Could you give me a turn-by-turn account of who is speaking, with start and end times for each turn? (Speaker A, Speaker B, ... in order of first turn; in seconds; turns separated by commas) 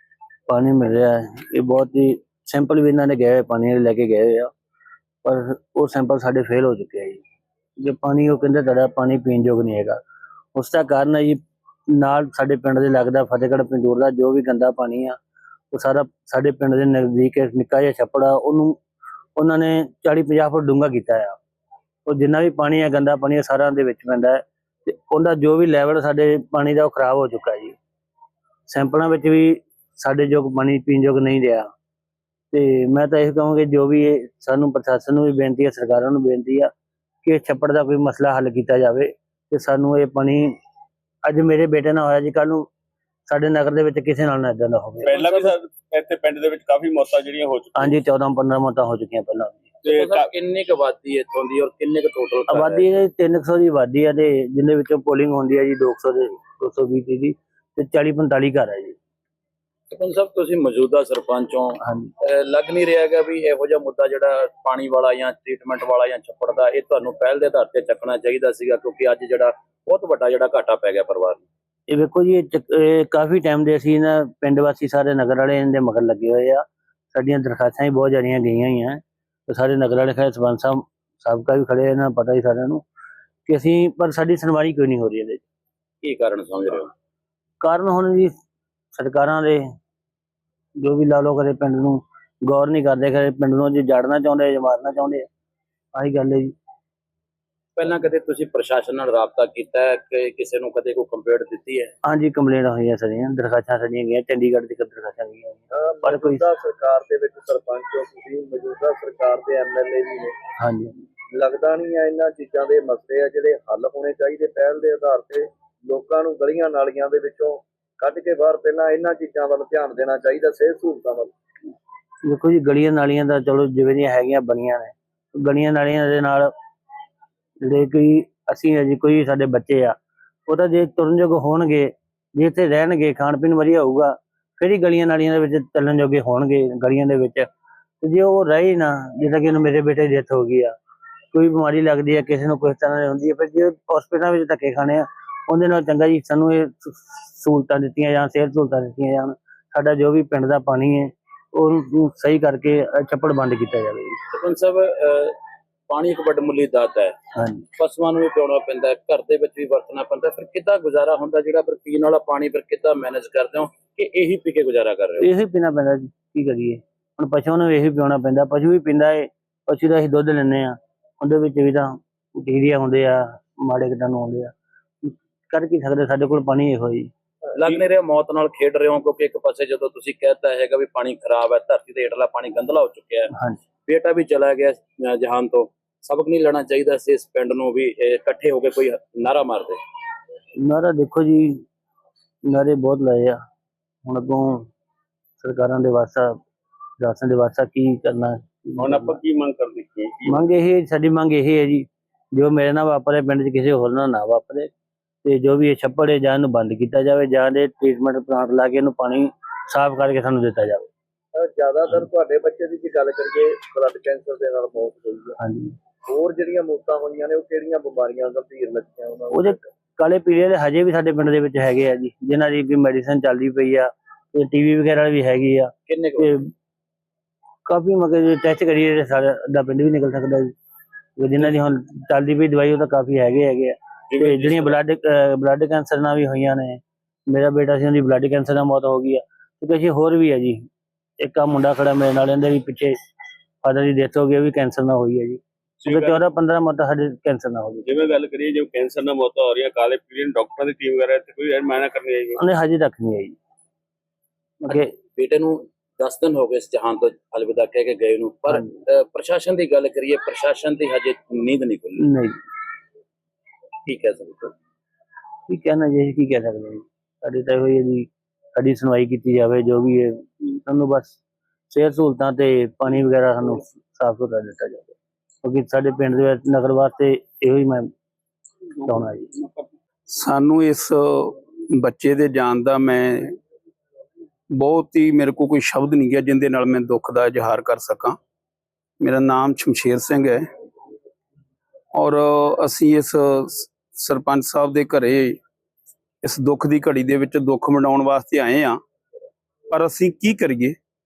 Speaker A: 0.5-4.5, Speaker A: 5.2-7.2, Speaker A: 7.8-10.0, Speaker A: 10.5-15.2, Speaker A: 15.7-18.8, Speaker A: 19.4-21.4, Speaker A: 22.1-27.8, Speaker A: 28.7-31.7, Speaker A: 32.5-36.7, Speaker A: 37.2-40.5, Speaker A: 41.2-42.7, Speaker A: 43.3-45.3, Speaker B: 45.0-47.9, Speaker C: 45.1-45.5, Speaker A: 47.7-49.6, Speaker C: 49.8-53.0, Speaker B: 49.9-50.3, Speaker A: 52.5-59.0, Speaker C: 59.9-71.4, Speaker A: 61.8-62.1, Speaker A: 71.9-82.8, Speaker A: 83.5-85.4, Speaker C: 86.0-86.9, Speaker A: 87.6-88.3, Speaker A: 88.9-89.7, Speaker A: 90.8-95.3, Speaker A: 95.9-96.5, Speaker C: 97.8-101.9, Speaker A: 102.0-106.4, Speaker D: 105.7-110.3, Speaker A: 110.6-110.9, Speaker D: 111.3-121.3, Speaker A: 122.2-126.5, Speaker A: 127.6-137.5, Speaker A: 138.0-140.7, Speaker A: 141.3-154.2, Speaker C: 154.3-155.3, Speaker C: 155.9-157.1, Speaker A: 157.3-157.7, Speaker C: 157.8-165.3, Speaker A: 165.2-177.1, Speaker C: 177.5-183.3, Speaker C: 183.9-189.8, Speaker A: 190.6-191.6, Speaker A: 192.5-193.4, Speaker A: 194.0-194.7, Speaker A: 195.4-196.4, Speaker A: 197.0-199.2, Speaker B: 198.8-200.4, Speaker A: 200.2-204.7, Speaker A: 205.2-210.9, Speaker D: 211.3-215.4, Speaker A: 215.4-215.7, Speaker D: 216.1-219.6, Speaker A: 219.3-226.5, Speaker C: 225.9-226.3, Speaker A: 227.7-230.5, Speaker A: 231.2-240.7, Speaker C: 234.1-234.8, Speaker A: 241.2-242.9, Speaker A: 243.6-247.9, Speaker B: 245.8-246.2, Speaker B: 247.8-252.4, Speaker A: 252.3-253.3, Speaker A: 254.6-254.9, Speaker C: 254.7-262.0, Speaker A: 262.0-262.4, Speaker C: 263.9-264.5, Speaker A: 265.5-271.2, Speaker A: 271.7-277.9, Speaker A: 278.8-279.3, Speaker E: 280.1-283.3, Speaker E: 284.5-288.2, Speaker E: 289.0-290.5, Speaker E: 291.9-295.4, Speaker E: 296.2-298.8, Speaker E: 299.7-300.7